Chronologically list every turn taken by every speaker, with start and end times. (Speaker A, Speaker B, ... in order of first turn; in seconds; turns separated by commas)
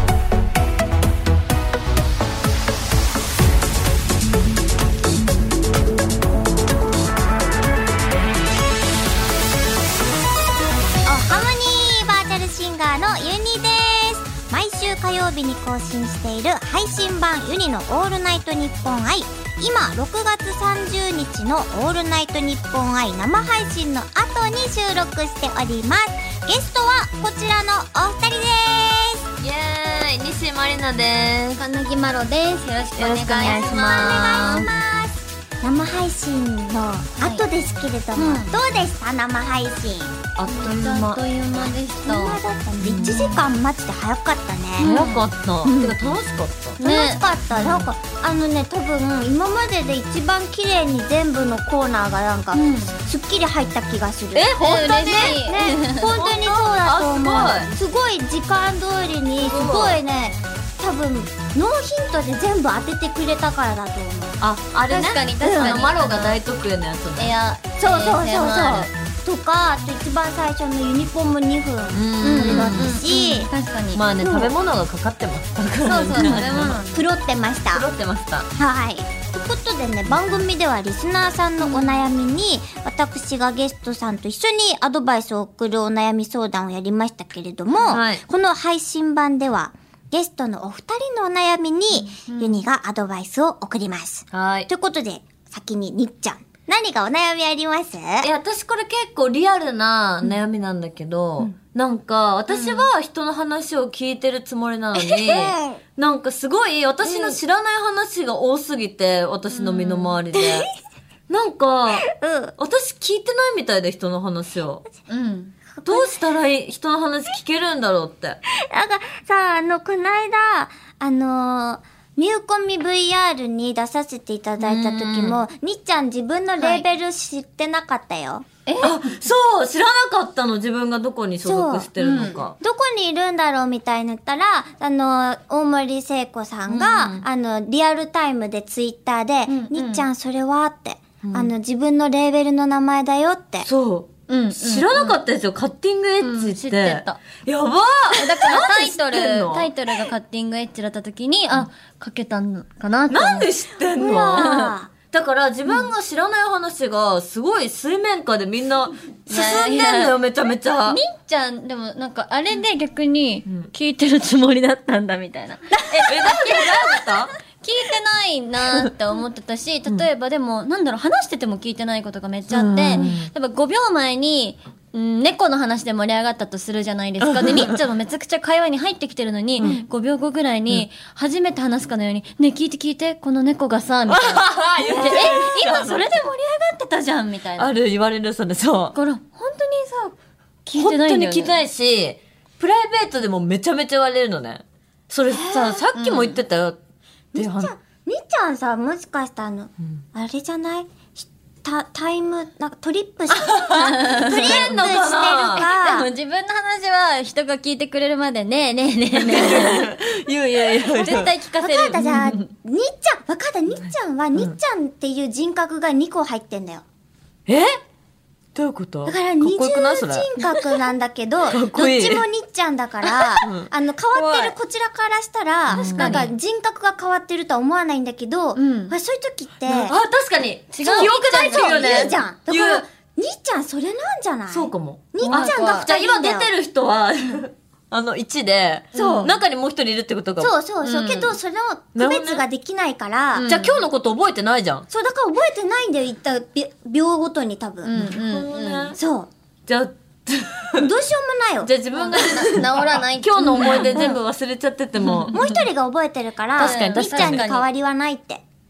Speaker A: 11.1-29.2, Speaker B: 29.4-31.6, Speaker C: 31.6-34.7, Speaker B: 33.0-34.7, Speaker A: 33.4-40.2, Speaker C: 38.2-38.5, Speaker B: 40.4-41.2, Speaker C: 40.5-42.4, Speaker A: 42.0-44.9, Speaker B: 42.8-43.4, Speaker C: 43.0-43.4, Speaker C: 44.8-46.0, Speaker B: 44.8-46.8, Speaker C: 46.8-47.2, Speaker A: 46.8-54.5, Speaker B: 47.5-47.9, Speaker C: 52.5-53.0, Speaker B: 54.4-55.4, Speaker C: 54.4-56.1, Speaker A: 55.2-64.4, Speaker B: 56.1-57.7, Speaker B: 59.4-60.0, Speaker B: 64.4-67.3, Speaker C: 64.9-66.4, Speaker A: 65.4-65.8, Speaker C: 67.2-68.9, Speaker A: 67.8-73.5, Speaker B: 71.9-73.0, Speaker C: 72.2-74.0, Speaker B: 73.9-76.8, Speaker A: 74.2-74.5, Speaker C: 75.8-77.0, Speaker A: 76.2-77.8, Speaker B: 77.7-78.5, Speaker A: 78.5-98.3, Speaker C: 81.6-82.0, Speaker B: 87.8-88.2, Speaker C: 92.1-92.6, Speaker B: 94.3-94.7, Speaker B: 98.2-110.7, Speaker C: 102.5-102.9, Speaker A: 105.0-105.8, Speaker A: 107.0-107.4, Speaker C: 109.5-110.2, Speaker A: 110.3-110.6, Speaker B: 111.3-112.1, Speaker A: 112.1-112.5, Speaker B: 112.6-114.8, Speaker C: 115.1-115.5, Speaker A: 115.8-116.2, Speaker B: 115.9-118.4, Speaker A: 118.7-128.4, Speaker B: 124.6-125.4, Speaker C: 126.6-126.8, Speaker C: 128.7-129.0, Speaker B: 128.8-132.6, Speaker A: 131.4-131.9, Speaker C: 132.0-132.4, Speaker A: 132.6-143.7, Speaker B: 136.7-137.3, Speaker C: 139.5-140.1, Speaker B: 141.2-141.5, Speaker B: 143.6-149.7, Speaker C: 144.3-145.2, Speaker C: 146.2-147.2, Speaker C: 148.1-153.5, Speaker B: 153.1-161.0, Speaker A: 154.0-154.9, Speaker C: 154.2-154.7, Speaker C: 159.3-160.2, Speaker C: 160.9-187.7, Speaker A: 165.8-166.4, Speaker B: 166.1-167.3, Speaker B: 172.5-173.3, Speaker B: 177.2-177.8, Speaker B: 184.1-186.2, Speaker B: 187.6-188.9, Speaker C: 188.9-191.6, Speaker B: 190.8-196.8, Speaker A: 195.3-195.8, Speaker C: 195.9-196.4, Speaker A: 197.3-206.1, Speaker B: 197.4-197.7, Speaker B: 203.4-205.7, Speaker C: 203.8-204.6, Speaker C: 205.4-209.9, Speaker B: 209.1-211.3, Speaker C: 210.8-212.1, Speaker A: 211.6-216.8, Speaker B: 212.0-212.4, Speaker B: 217.5-217.8, Speaker B: 218.6-220.3, Speaker A: 219.1-230.0, Speaker B: 221.5-222.2, Speaker B: 223.0-223.7, Speaker C: 224.1-224.6, Speaker C: 225.7-226.3, Speaker B: 225.7-226.3, Speaker C: 228.6-228.9, Speaker B: 229.7-232.8, Speaker C: 230.7-232.2, Speaker A: 230.8-236.5, Speaker B: 234.5-240.5, Speaker C: 235.2-235.9, Speaker C: 238.9-239.3, Speaker A: 238.9-239.3, Speaker A: 240.4-243.5, Speaker C: 240.8-241.3, Speaker B: 241.9-242.4, Speaker C: 243.3-243.9, Speaker B: 243.5-244.9, Speaker A: 244.9-247.9, Speaker C: 247.8-249.0, Speaker B: 247.9-249.0, Speaker A: 248.9-249.3, Speaker B: 249.7-250.9, Speaker A: 250.8-251.7, Speaker B: 251.6-255.4, Speaker C: 251.9-254.2, Speaker C: 255.0-255.4, Speaker A: 255.3-258.4, Speaker B: 256.6-257.4, Speaker C: 256.6-257.7